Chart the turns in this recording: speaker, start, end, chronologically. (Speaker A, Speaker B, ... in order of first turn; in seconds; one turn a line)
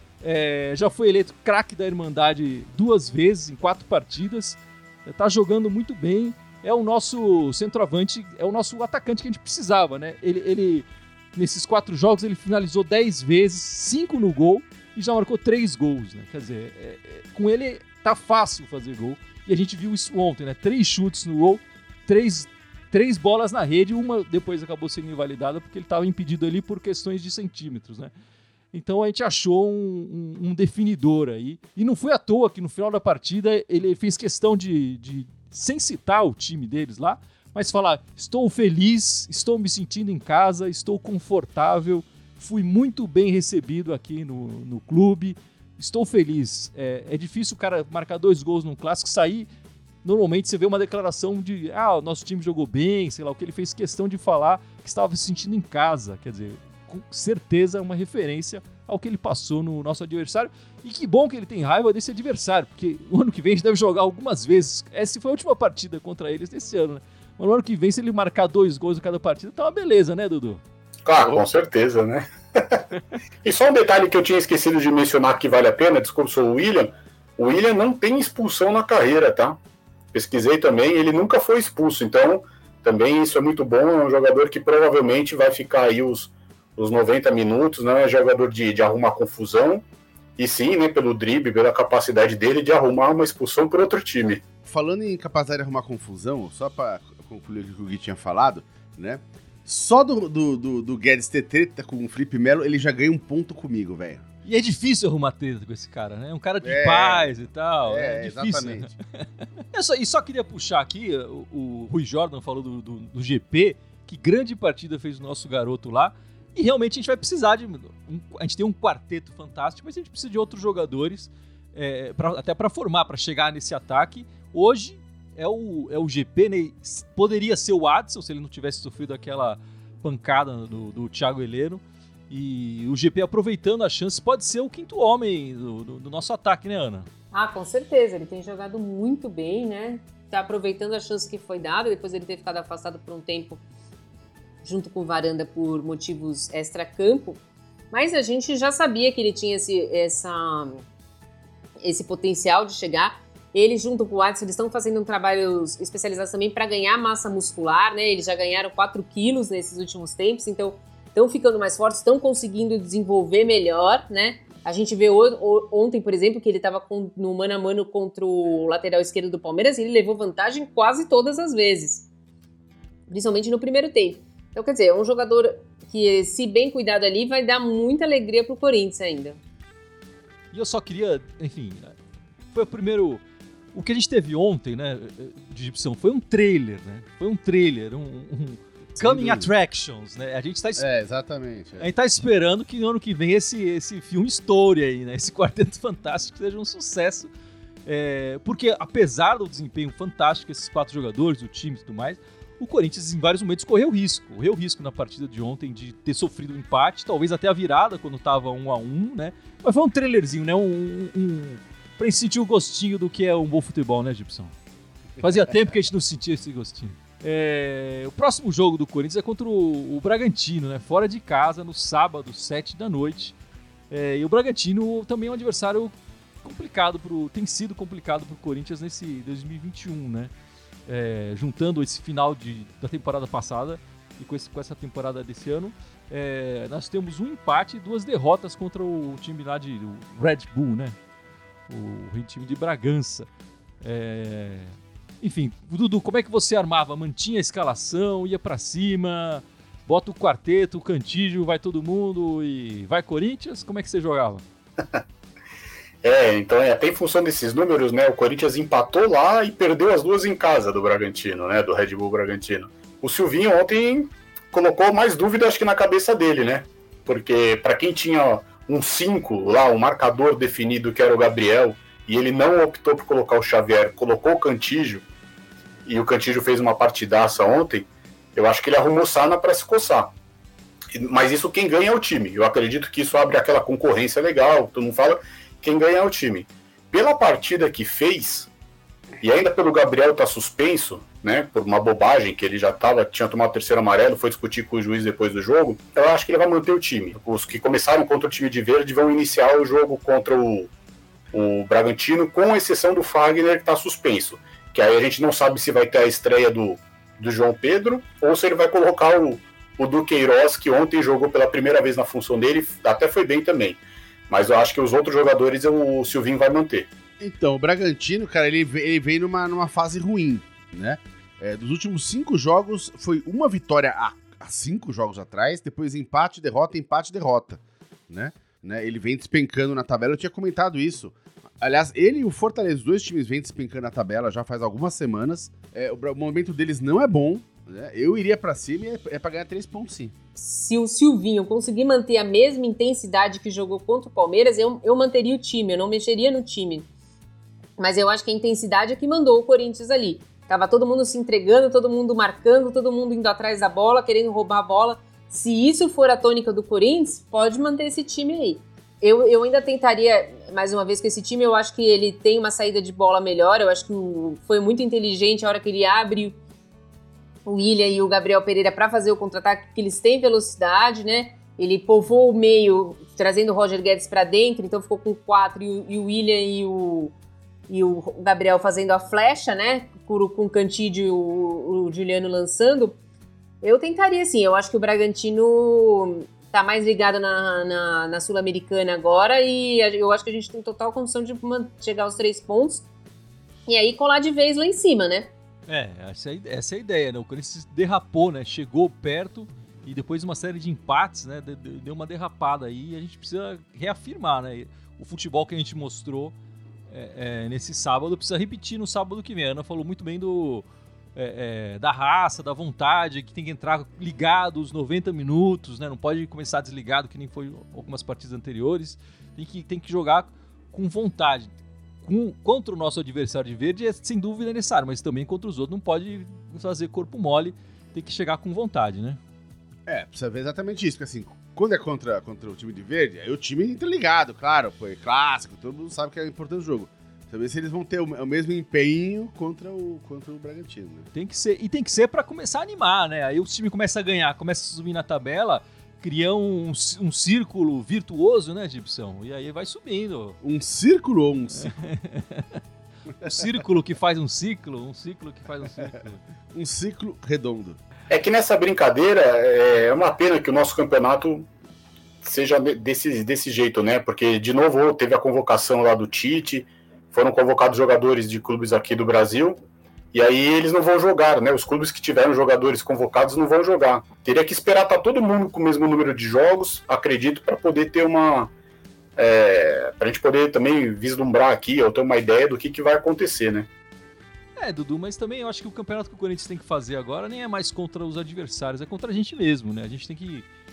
Speaker A: 0.2-28.1
Speaker A: 28.7-49.5
Speaker A: 50.0-70.6
Speaker B: 71.0-72.8
Speaker C: 71.2-71.4
Speaker B: 73.4-79.6
Speaker B: 80.1-89.8
Speaker B: 90.4-94.4
Speaker C: 94.6-104.3
Speaker A: 104.4-137.1
Speaker C: 106.6-107.3
Speaker C: 107.8-108.9
Speaker D: 137.3-143.6
Speaker D: 144.6-147.4
Speaker D: 147.9-150.8
Speaker D: 151.8-172.1
Speaker D: 173.1-179.4
Speaker A: 180.5-181.9
Speaker A: 182.5-183.2
Speaker A: 183.7-190.8
Speaker C: 189.0-189.5
Speaker C: 190.8-191.9
Speaker A: 191.8-197.3
Speaker A: 197.8-214.5
Speaker A: 215.2-223.3
Speaker A: 223.9-230.3
Speaker A: 230.9-241.0
Speaker A: 241.7-243.3
Speaker A: 243.8-254.4
Speaker B: 256.0-275.0
Speaker B: 275.9-280.1
Speaker B: 280.9-288.5
Speaker B: 289.2-300.7
Speaker B: 301.3-316.9
Speaker C: 317.2-340.1
Speaker D: 340.4-346.9
Speaker D: 347.8-366.4
Speaker D: 367.4-377.1
Speaker D: 377.7-383.0
Speaker D: 383.6-392.8
Speaker D: 393.7-395.3
Speaker A: 395.7-406.3
Speaker A: 406.9-421.5
Speaker A: 422.0-429.2
Speaker C: 429.9-441.1
Speaker A: 441.1-450.4
Speaker C: 450.4-451.8
Speaker A: 451.6-452.6
Speaker A: 453.2-456.2
Speaker C: 456.5-457.8
Speaker B: 458.1-461.5
Speaker B: 462.2-469.6
Speaker B: 470.1-478.5
Speaker B: 479.1-483.7
Speaker A: 484.6-490.4